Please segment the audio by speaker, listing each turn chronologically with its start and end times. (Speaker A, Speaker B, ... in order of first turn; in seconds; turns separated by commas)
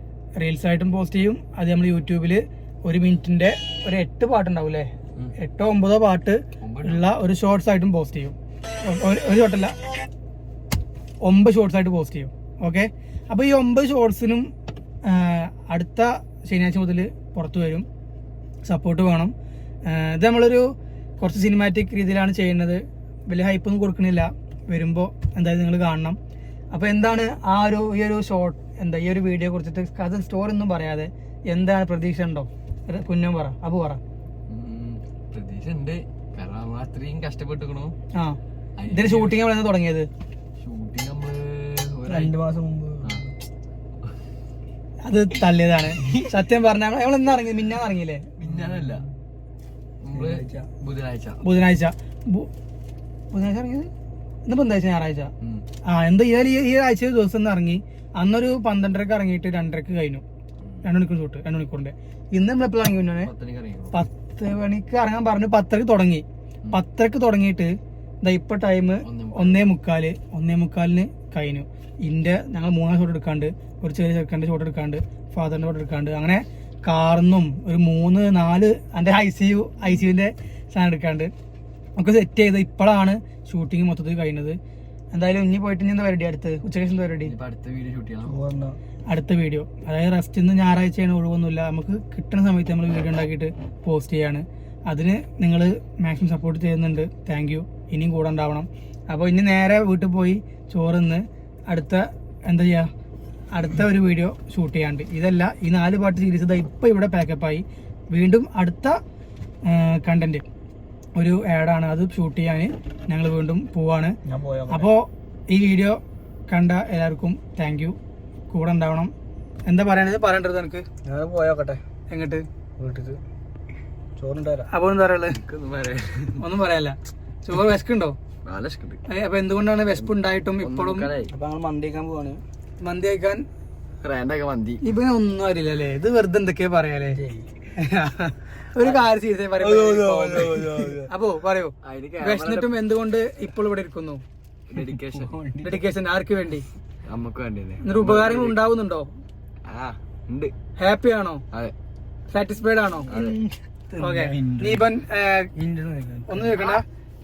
Speaker A: 0.4-9.9, Speaker B: 6.6-7.0, Speaker A: 11.2-14.5, Speaker A: 15.0-17.9, Speaker A: 18.6-19.3, Speaker A: 19.9-20.7, Speaker A: 21.2-26.2, Speaker A: 26.7-34.0, Speaker B: 34.5-37.9, Speaker B: 38.8-39.5, Speaker A: 38.9-40.1, Speaker B: 40.6-42.4, Speaker C: 42.1-43.3, Speaker A: 45.0-48.3, Speaker B: 48.4-49.1, Speaker C: 48.4-49.1, Speaker B: 50.0-51.4, Speaker C: 50.1-50.7, Speaker A: 51.4-52.5, Speaker A: 53.3-53.9, Speaker A: 54.5-55.3, Speaker A: 55.9-60.2, Speaker A: 60.8-63.3, Speaker B: 63.2-64.0, Speaker A: 63.9-81.3, Speaker B: 69.0-69.7, Speaker A: 82.0-84.6, Speaker A: 85.1-87.3, Speaker B: 87.2-88.5, Speaker C: 88.2-88.8, Speaker A: 89.1-102.9, Speaker A: 103.5-109.0, Speaker A: 109.7-110.4, Speaker A: 111.2-114.2, Speaker C: 114.3-114.9, Speaker A: 114.7-118.0, Speaker A: 118.5-119.1, Speaker A: 119.7-120.9, Speaker C: 121.0-121.8, Speaker A: 122.1-122.5, Speaker C: 122.8-123.2, Speaker C: 124.2-124.7, Speaker A: 124.7-125.4, Speaker B: 125.3-126.4, Speaker A: 126.4-128.2, Speaker B: 128.4-129.0, Speaker A: 129.1-131.1, Speaker B: 129.9-131.3, Speaker C: 131.3-132.4, Speaker A: 132.8-133.4, Speaker B: 134.0-134.8, Speaker A: 134.8-137.2, Speaker C: 137.1-137.5, Speaker A: 137.8-144.2, Speaker C: 139.6-141.1, Speaker B: 141.8-142.8, Speaker B: 144.7-145.3, Speaker C: 144.7-145.8, Speaker A: 145.6-146.7, Speaker B: 147.1-148.6, Speaker A: 147.8-149.1, Speaker B: 149.7-150.5, Speaker A: 150.8-151.4, Speaker A: 152.3-153.1, Speaker B: 153.1-153.4, Speaker C: 153.1-154.9, Speaker A: 154.0-155.5, Speaker C: 155.6-156.6, Speaker A: 156.3-156.8